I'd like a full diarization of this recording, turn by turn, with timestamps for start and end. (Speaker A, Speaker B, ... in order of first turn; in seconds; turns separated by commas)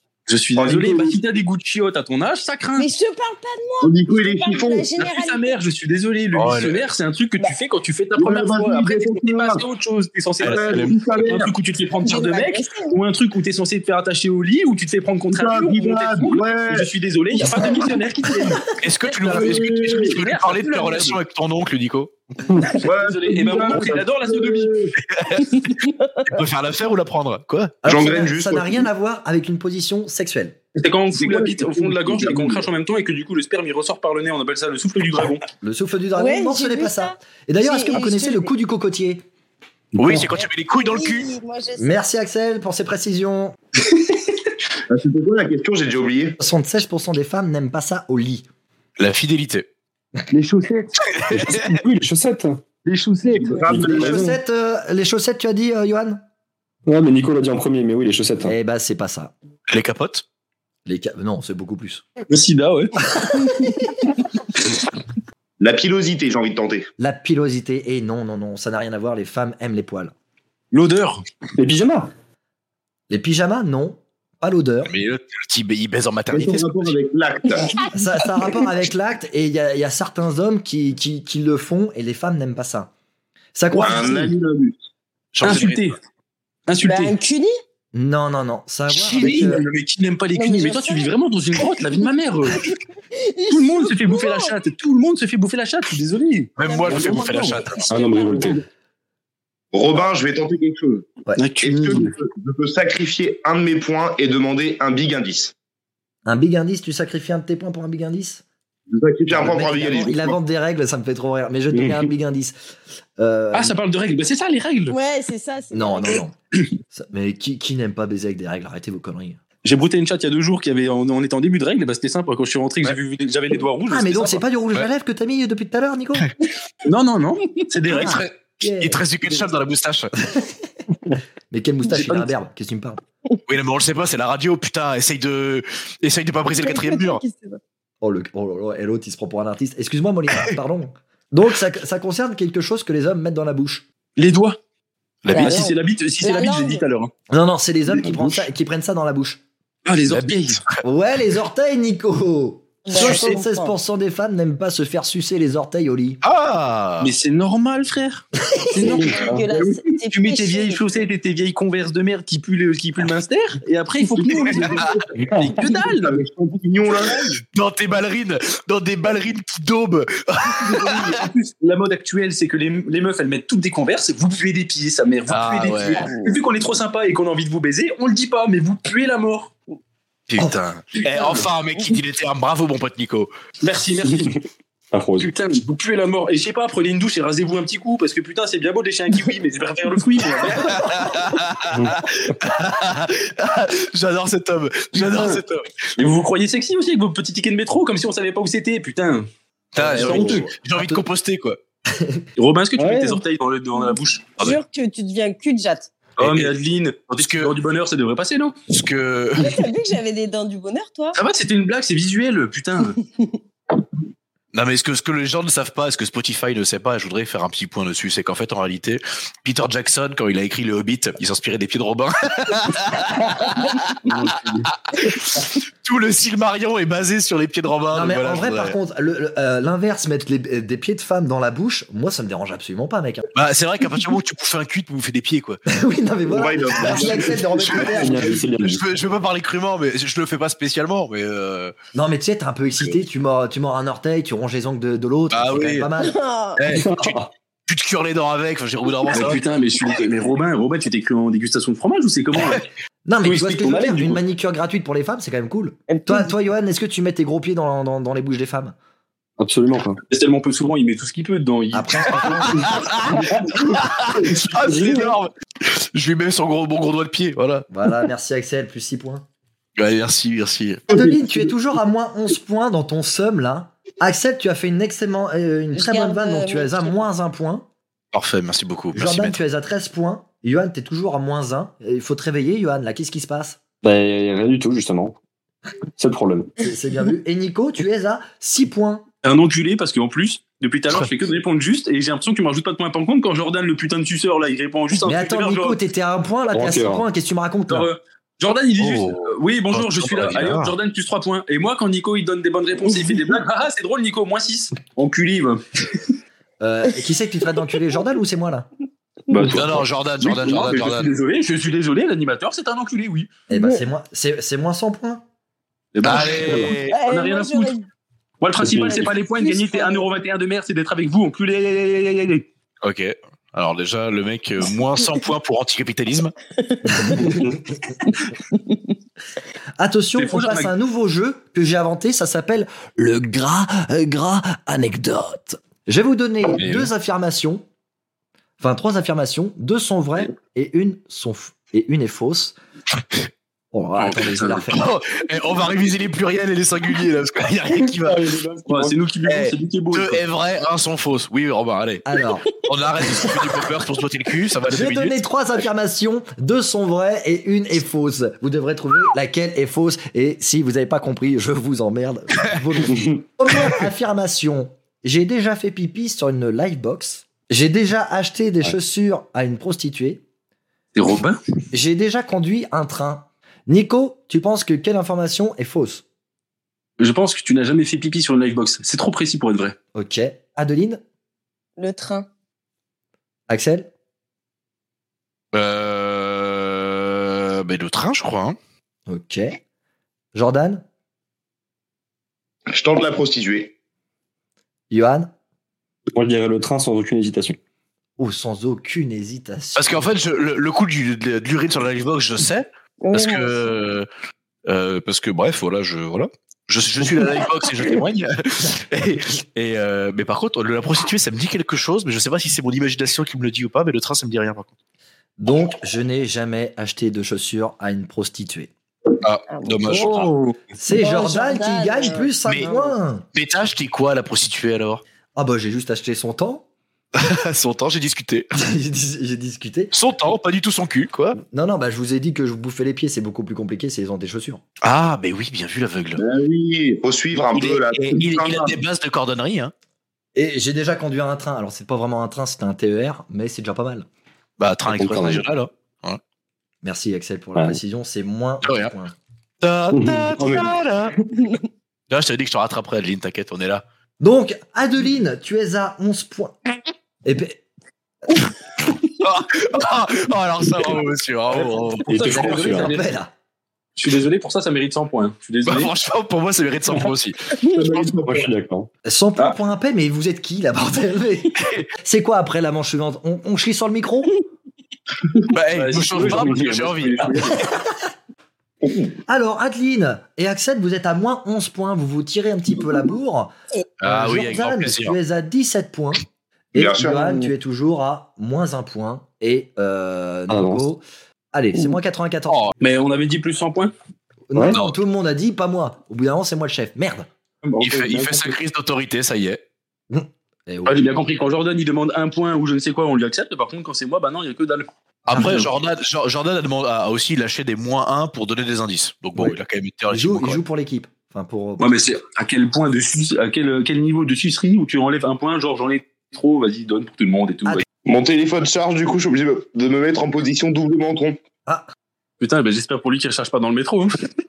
Speaker A: 0.3-2.9, Speaker B: 2.8-5.6, Speaker C: 3.8-4.9, Speaker A: 5.0-21.2, Speaker D: 6.3-6.8, Speaker C: 8.2-9.6, Speaker D: 10.4-11.0, Speaker C: 10.4-11.6, Speaker B: 12.0-13.0, Speaker C: 15.3-16.9, Speaker D: 18.8-22.1, Speaker C: 19.2-20.1, Speaker E: 22.5-22.8, Speaker C: 22.8-24.9, Speaker A: 22.9-24.8, Speaker D: 25.1-27.8, Speaker B: 25.6-26.3, Speaker F: 27.8-30.6, Speaker C: 27.9-28.9, Speaker A: 30.8-35.5, Speaker C: 31.1-32.6, Speaker F: 35.6-39.2, Speaker B: 36.2-38.5, Speaker E: 40.0-40.2, Speaker D: 40.0-41.3, Speaker B: 40.4-42.0, Speaker F: 41.8-43.6, Speaker C: 44.9-46.4, Speaker F: 46.4-48.5, Speaker D: 49.0-49.7, Speaker D: 51.1-51.7, Speaker E: 51.3-52.6, Speaker A: 52.9-53.9, Speaker C: 53.3-54.3, Speaker E: 53.7-54.4, Speaker F: 53.9-56.2, Speaker E: 56.9-58.5, Speaker F: 58.4-59.3, Speaker D: 59.7-60.2, Speaker F: 60.9-62.1, Speaker A: 62.3-63.0, Speaker C: 65.6-66.9, Speaker F: 67.0-70.1, Speaker A: 70.7-71.2, Speaker E: 71.6-72.1, Speaker F: 73.1-74.9, Speaker D: 74.9-77.0, Speaker C: 76.3-77.8, Speaker F: 77.9-82.9, Speaker F: 83.5-84.3, Speaker C: 83.8-84.8, Speaker D: 85.3-85.9, Speaker A: 85.4-86.0, Speaker A: 86.7-87.1, Speaker B: 86.8-87.6, Speaker F: 87.9-89.7, Speaker A: 89.0-92.7, Speaker B: 90.3-91.1, Speaker B: 92.6-94.5, Speaker A: 93.5-97.6, Speaker D: 96.6-97.9, Speaker B: 96.6-98.6, Speaker E: 97.9-98.6, Speaker C: 99.7-105.5, Speaker F: 101.3-102.0, Speaker A: 101.4-102.1, Speaker F: 106.3-108.4, Speaker C: 108.9-110.4, Speaker F: 109.3-112.5, Speaker E: 111.7-112.1, Speaker F: 113.2-113.8, Speaker A: 113.5-115.0, Speaker B: 114.9-116.2, Speaker F: 115.7-116.4, Speaker F: 116.9-119.4, Speaker A: 119.6-124.4, Speaker F: 123.9-126.3, Speaker A: 126.9-128.2, Speaker D: 127.9-130.1, Speaker F: 128.0-129.0, Speaker F: 130.3-130.5, Speaker F: 131.5-133.0, Speaker A: 131.9-132.3, Speaker D: 133.5-137.2, Speaker B: 136.6-137.6, Speaker F: 138.0-143.8, Speaker A: 144.2-144.6, Speaker D: 145.2-145.6, Speaker A: 145.3-147.1, Speaker B: 145.3-146.8, Speaker F: 147.3-149.4, Speaker A: 149.8-150.6, Speaker D: 150.1-150.8, Speaker F: 150.8-156.2, Speaker B: 152.8-153.7, Speaker D: 156.2-157.1, Speaker A: 157.0-166.2, Speaker B: 158.8-161.0, Speaker E: 158.8-159.4, Speaker C: 164.2-165.1, Speaker E: 165.2-165.5, Speaker C: 165.6-167.4, Speaker D: 167.5-171.2, Speaker A: 170.5-179.5, Speaker D: 175.3-176.1, Speaker B: 176.1-176.3, Speaker D: 180.3-183.3, Speaker A: 181.0-181.5, Speaker A: 183.6-184.4, Speaker E: 184.9-185.3, Speaker A: 185.2-190.9, Speaker D: 190.6-195.9, Speaker E: 191.7-192.0, Speaker A: 195.0-195.4, Speaker A: 196.0-200.5, Speaker D: 199.7-201.6, Speaker F: 200.0-201.1, Speaker F: 201.9-202.2, Speaker A: 202.4-204.3, Speaker E: 202.8-203.2, Speaker B: 204.4-205.9, Speaker A: 206.2-208.6, Speaker D: 206.2-206.5, Speaker D: 207.2-207.5, Speaker D: 208.7-209.6, Speaker B: 209.4-211.2, Speaker A: 211.2-213.0, Speaker D: 214.5-228.8, Speaker A: 224.0-224.7, Speaker F: 227.9-233.3, Speaker D: 233.3-235.6, Speaker F: 235.7-238.5, Speaker C: 236.3-238.2, Speaker D: 236.8-241.7, Speaker E: 237.8-238.8, Speaker F: 241.9-246.2, Speaker D: 245.3-245.9, Speaker B: 246.0-246.6, Speaker D: 246.6-249.4, Speaker E: 246.7-247.3, Speaker A: 249.1-252.7, Speaker F: 253.1-258.8, Speaker A: 253.2-254.2, Speaker B: 255.9-256.3, Speaker E: 259.4-260.0, Speaker A: 260.1-262.5, Speaker F: 261.7-262.8, Speaker D: 262.5-267.7, Speaker E: 262.6-263.7, Speaker E: 264.2-265.2, Speaker F: 267.7-269.3, Speaker D: 269.8-270.8, Speaker F: 270.9-277.7, Speaker B: 275.7-277.1, Speaker D: 278.1-279.4, Speaker F: 278.9-283.6, Speaker E: 283.8-285.2, Speaker E: 286.0-286.5, Speaker F: 286.6-289.1, Speaker A: 289.2-295.8, Speaker F: 295.0-297.9, Speaker E: 296.5-297.1, Speaker A: 297.7-305.6, Speaker D: 298.8-300.8, Speaker F: 306.6-308.7, Speaker A: 309.3-313.3, Speaker E: 309.3-309.6, Speaker D: 309.5-311.1, Speaker F: 313.5-315.2, Speaker B: 313.6-313.9, Speaker A: 315.9-317.8, Speaker D: 316.0-317.0, Speaker B: 316.9-317.9, Speaker A: 318.4-322.5, Speaker E: 318.6-319.1, Speaker B: 319.1-320.1, Speaker D: 322.8-326.3, Speaker B: 326.6-327.4, Speaker F: 329.8-337.6, Speaker A: 330.2-330.7, Speaker A: 336.6-336.9, Speaker F: 338.6-342.6, Speaker F: 343.7-344.8, Speaker A: 344.1-344.6, Speaker D: 344.5-348.3, Speaker E: 347.9-348.9, Speaker A: 348.7-350.2, Speaker D: 349.3-355.2, Speaker F: 352.1-352.5, Speaker F: 354.7-370.2, Speaker A: 370.9-371.4, Speaker F: 371.7-376.0, Speaker A: 377.0-379.8, Speaker F: 379.9-381.0, Speaker B: 381.8-382.3, Speaker F: 383.5-383.9, Speaker D: 385.5-388.6, Speaker F: 389.1-389.6, Speaker F: 390.3-390.8, Speaker C: 392.7-393.7, Speaker F: 394.9-395.3, Speaker E: 396.1-397.6, Speaker F: 398.2-400.1, Speaker D: 399.8-404.1, Speaker B: 403.0-403.7, Speaker D: 404.7-414.7, Speaker F: 415.4-418.7, Speaker D: 419.2-420.3, Speaker B: 419.5-420.0, Speaker A: 419.9-420.6, Speaker F: 420.8-423.3, Speaker B: 421.0-422.9, Speaker D: 423.4-425.0, Speaker F: 425.4-426.7, Speaker D: 427.1-428.5, Speaker F: 428.6-429.9, Speaker D: 429.9-431.4, Speaker F: 431.5-434.6, Speaker D: 434.8-436.2, Speaker C: 436.2-438.8, Speaker D: 437.5-439.7, Speaker F: 440.4-444.1, Speaker D: 444.6-446.2, Speaker E: 444.9-445.4, Speaker F: 446.8-449.2, Speaker D: 448.6-448.9, Speaker D: 449.6-451.2, Speaker E: 449.9-451.4, Speaker D: 452.1-453.8, Speaker F: 454.2-456.6, Speaker F: 457.2-457.6, Speaker D: 459.1-462.3, Speaker A: 461.5-463.1, Speaker E: 462.1-462.9, Speaker F: 462.3-463.3, Speaker A: 464.0-465.9, Speaker D: 465.7-468.1, Speaker C: 467.7-468.5, Speaker E: 468.2-468.9, Speaker F: 469.1-474.4, Speaker D: 471.6-471.9, Speaker D: 475.5-477.7, Speaker A: 475.7-477.6, Speaker E: 476.2-476.6, Speaker C: 478.8-479.1, Speaker F: 479.3-486.2, Speaker D: 484.0-485.2, Speaker F: 486.7-492.7, Speaker C: 486.8-487.5, Speaker E: 490.5-490.9, Speaker A: 492.8-493.9, Speaker F: 494.5-497.3, Speaker D: 494.7-495.0, Speaker A: 497.6-498.6, Speaker D: 497.8-499.6, Speaker F: 500.1-501.1, Speaker A: 500.9-505.6, Speaker D: 505.3-510.6, Speaker F: 505.3-505.7, Speaker F: 510.1-512.0, Speaker A: 511.8-517.9, Speaker C: 518.0-521.4, Speaker A: 522.4-524.2